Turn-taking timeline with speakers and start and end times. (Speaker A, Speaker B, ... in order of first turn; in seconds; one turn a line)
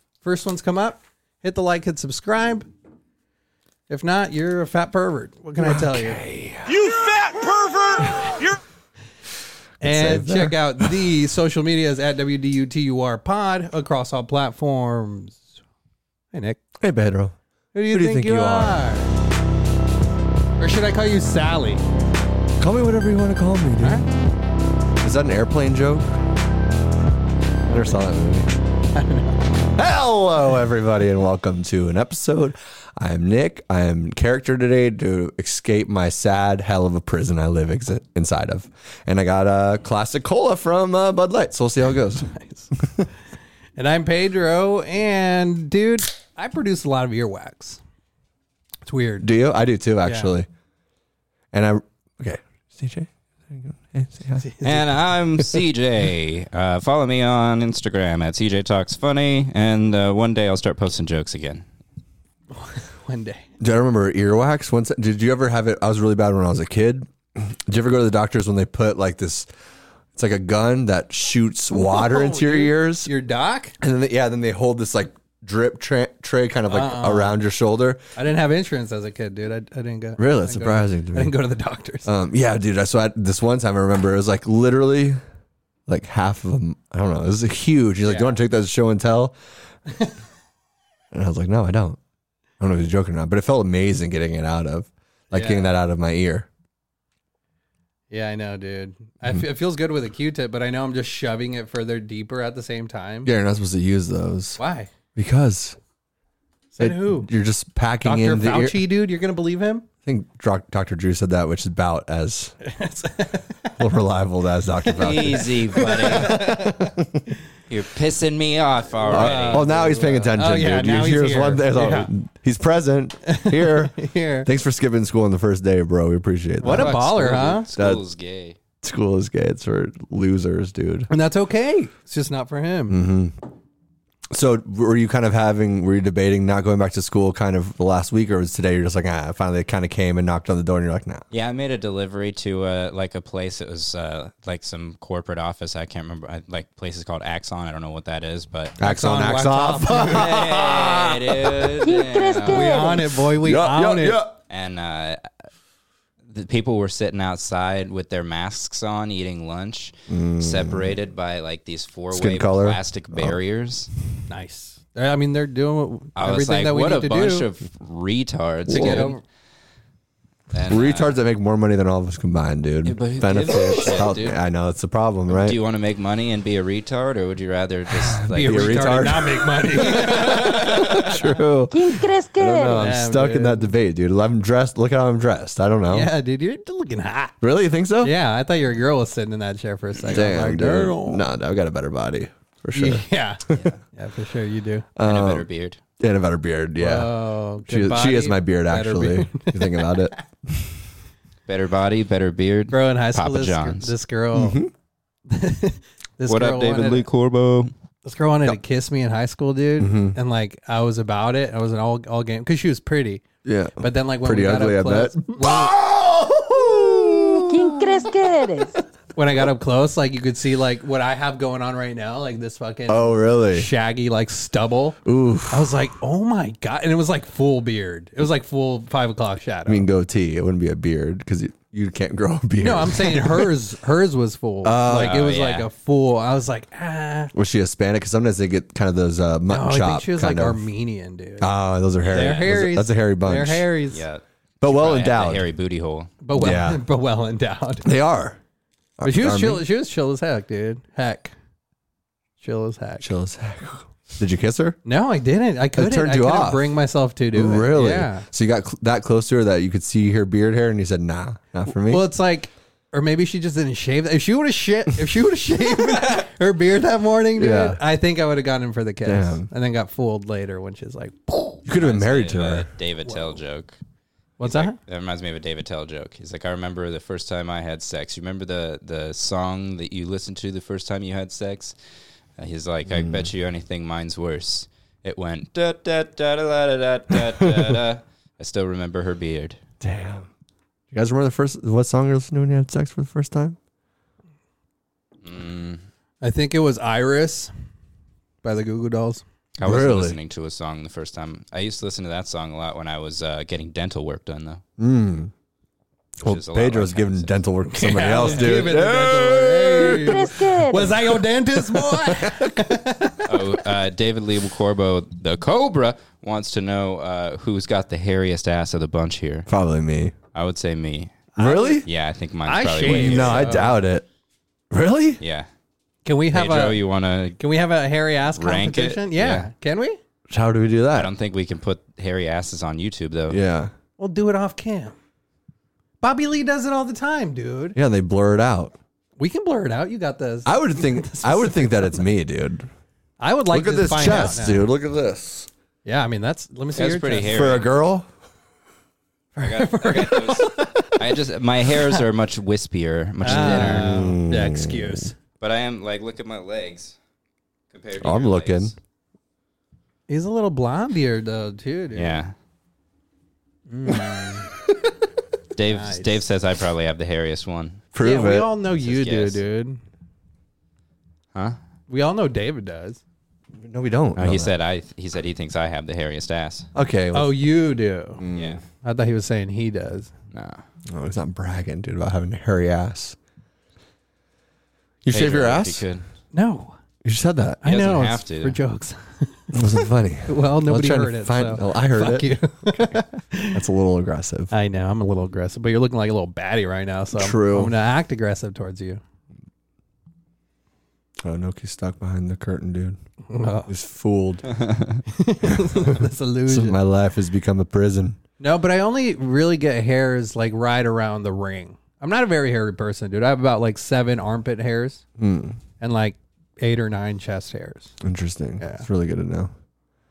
Speaker A: 0.2-2.7
Speaker A: 3.9-6.2
Speaker B: 5.6-6.7
Speaker C: 6.6-8.6
Speaker B: 9.8-11.0
Speaker A: 9.8-15.4
Speaker A: 16.3-16.6
Speaker B: 16.8-17.4
Speaker A: 17.7-19.1
Speaker B: 17.9-18.8
Speaker A: 20.6-21.8
Speaker B: 22.6-24.1
Speaker A: 23.8-24.1
Speaker B: 25.0-26.1
Speaker B: 27.7-28.5
Speaker A: 28.9-29.5
Speaker B: 29.7-42.3
Speaker A: 42.3-42.7
Speaker A: 43.8-47.8
Speaker A: 48.9-49.3
Speaker B: 49.2-50.5
Speaker A: 50.0-50.3
Speaker B: 51.5-54.5
Speaker A: 54.4-54.8
Speaker D: 54.6-61.6
Speaker A: 62.5-63.5
Speaker B: 63.6-69.5
Speaker B: 70.1-73.1
Speaker A: 71.8-73.7
Speaker B: 73.8-78.0
Speaker A: 76.7-77.4
Speaker A: 78.2-82.1
Speaker B: 80.2-81.4
Speaker B: 82.0-85.2
Speaker B: 85.9-89.3
Speaker A: 88.1-88.4
Speaker A: 89.9-90.1
Speaker B: 91.1-92.0
Speaker B: 92.6-96.5
Speaker A: 95.3-95.7
Speaker A: 98.1-103.3
Speaker B: 103.2-104.6
Speaker A: 104.6-104.9
Speaker B: 105.1-105.8
Speaker A: 106.7-107.3
Speaker B: 106.8-108.8
Speaker A: 108.0-109.8
Speaker B: 110.0-112.5
Speaker A: 112.6-113.8
Speaker B: 113.8-117.2
Speaker D: 115.0-116.5
Speaker A: 115.0-116.9
Speaker D: 117.7-119.7
Speaker A: 119.0-122.1
Speaker B: 119.0-127.0
Speaker A: 123.2-124.5
Speaker A: 126.6-127.7
Speaker D: 126.7-128.6
Speaker B: 127.7-128.0
Speaker B: 128.8-131.1
Speaker A: 131.1-133.0
Speaker B: 132.9-133.4
Speaker B: 134.3-141.2
Speaker D: 141.3-148.8
Speaker B: 148.8-151.8
Speaker A: 148.8-150.4
Speaker D: 150.0-152.8
Speaker E: 151.8-153.1
Speaker A: 152.5-154.2
Speaker B: 153.3-154.4
Speaker D: 154.5-155.3
Speaker D: 156.3-163.9
Speaker B: 160.1-160.9
Speaker B: 162.1-163.4
Speaker A: 164.3-167.5
Speaker D: 166.2-169.2
Speaker B: 168.7-169.1
Speaker A: 168.7-169.2
Speaker D: 170.5-171.2
Speaker B: 170.7-175.6
Speaker D: 172.8-174.4
Speaker D: 175.3-179.2
Speaker B: 177.9-186.1
Speaker A: 178.3-181.2
Speaker D: 179.8-181.1
Speaker E: 181.7-182.9
Speaker A: 182.7-183.7
Speaker A: 185.9-187.4
Speaker B: 187.4-188.1
Speaker A: 188.0-191.2
Speaker B: 190.0-193.6
Speaker A: 192.7-194.9
Speaker B: 194.9-195.5
Speaker D: 195.0-195.8
Speaker B: 196.0-200.8
Speaker A: 196.8-199.9
Speaker D: 201.5-203.9
Speaker A: 202.7-204.6
Speaker B: 204.3-204.7
Speaker A: 205.3-207.1
Speaker D: 206.3-207.7
Speaker A: 208.0-213.2
Speaker B: 209.8-210.2
Speaker B: 213.4-217.7
Speaker A: 213.8-215.8
Speaker E: 217.4-218.7
Speaker A: 219.1-229.9
Speaker B: 222.9-223.7
Speaker B: 225.0-225.7
Speaker B: 229.7-233.5
Speaker A: 232.6-237.3
Speaker B: 234.6-235.2
Speaker D: 234.9-235.7
Speaker B: 237.3-240.6
Speaker A: 239.5-241.5
Speaker B: 241.4-243.7
Speaker D: 242.0-242.4
Speaker A: 242.1-244.0
Speaker D: 243.9-246.1
Speaker B: 244.6-245.5
Speaker A: 246.2-247.9
Speaker B: 246.3-246.8
Speaker B: 247.8-248.4
Speaker B: 249.0-249.6
Speaker A: 249.0-251.3
Speaker A: 252.4-253.1
Speaker B: 253.0-254.8
Speaker A: 254.8-258.2
Speaker B: 255.7-256.7
Speaker B: 257.3-262.1
Speaker A: 261.8-271.6
Speaker B: 267.4-267.8
Speaker B: 269.0-269.5
Speaker B: 271.6-272.7
Speaker D: 271.8-273.8
Speaker A: 273.1-273.3
Speaker A: 274.4-274.8
Speaker D: 274.4-281.7
Speaker D: 282.4-289.6
Speaker B: 282.9-283.3
Speaker B: 287.2-287.8
Speaker B: 289.8-290.3
Speaker B: 290.9-293.6
Speaker D: 295.2-295.8
Speaker A: 296.2-297.5
Speaker A: 298.4-299.2
Speaker B: 299.6-300.2
Speaker D: 299.6-304.6
Speaker B: 304.8-305.3
Speaker B: 306.2-310.4
Speaker D: 306.2-307.3
Speaker A: 307.7-313.4
Speaker D: 308.2-308.5
Speaker E: 309.8-310.9
Speaker B: 311.8-312.5
Speaker D: 313.2-319.5
Speaker B: 319.5-320.1
Speaker D: 320.3-321.3
Speaker A: 321.3-321.8
Speaker B: 321.4-321.8
Speaker D: 321.8-323.7
Speaker A: 322.4-323.7
Speaker B: 322.8-324.1
Speaker B: 324.7-325.2
Speaker D: 325.2-325.5
Speaker A: 326.0-326.8
Speaker D: 326.3-327.4
Speaker A: 327.4-330.0
Speaker D: 328.3-329.5
Speaker B: 330.3-331.1
Speaker D: 330.9-333.4
Speaker B: 333.3-333.7
Speaker A: 334.0-334.9
Speaker A: 336.0-337.8
Speaker B: 337.7-338.8
Speaker A: 339.2-342.0
Speaker B: 340.4-342.7
Speaker A: 343.2-344.6
Speaker B: 343.5-345.5
Speaker A: 345.8-347.6
Speaker D: 346.7-347.7
Speaker B: 347.3-348.1
Speaker A: 349.4-351.0
Speaker D: 349.4-354.1
Speaker B: 353.2-355.1
Speaker A: 353.2-355.1
Speaker D: 355.4-356.9
Speaker D: 357.7-358.7
Speaker B: 358.0-358.7
Speaker A: 360.1-362.2
Speaker D: 361.9-362.3
Speaker A: 363.7-364.5
Speaker D: 365.5-367.9
Speaker A: 365.7-366.2
Speaker B: 367.9-368.5
Speaker A: 368.0-369.8
Speaker D: 368.7-369.4
Speaker A: 371.9-373.0
Speaker B: 373.6-374.5
Speaker D: 374.1-376.7
Speaker B: 376.7-377.4
Speaker A: 377.1-378.2
Speaker B: 378.2-378.6
Speaker D: 378.3-378.6
Speaker A: 378.8-380.1
Speaker D: 380.3-380.6
Speaker B: 380.9-383.2
Speaker B: 385.0-385.8
Speaker D: 385.1-386.1
Speaker A: 386.3-386.8
Speaker B: 387.0-387.6
Speaker A: 387.6-393.6
Speaker D: 387.6-388.6
Speaker B: 389.5-392.9
Speaker B: 393.5-394.5
Speaker A: 394.5-399.0
Speaker B: 397.1-397.7
Speaker B: 401.2-403.0
Speaker A: 403.3-403.7
Speaker B: 403.7-404.4
Speaker D: 404.5-405.0
Speaker A: 405.1-406.8
Speaker B: 405.4-408.2
Speaker A: 408.4-415.0
Speaker B: 415.2-415.6
Speaker A: 415.8-417.9
Speaker B: 418.0-419.5
Speaker A: 418.6-418.9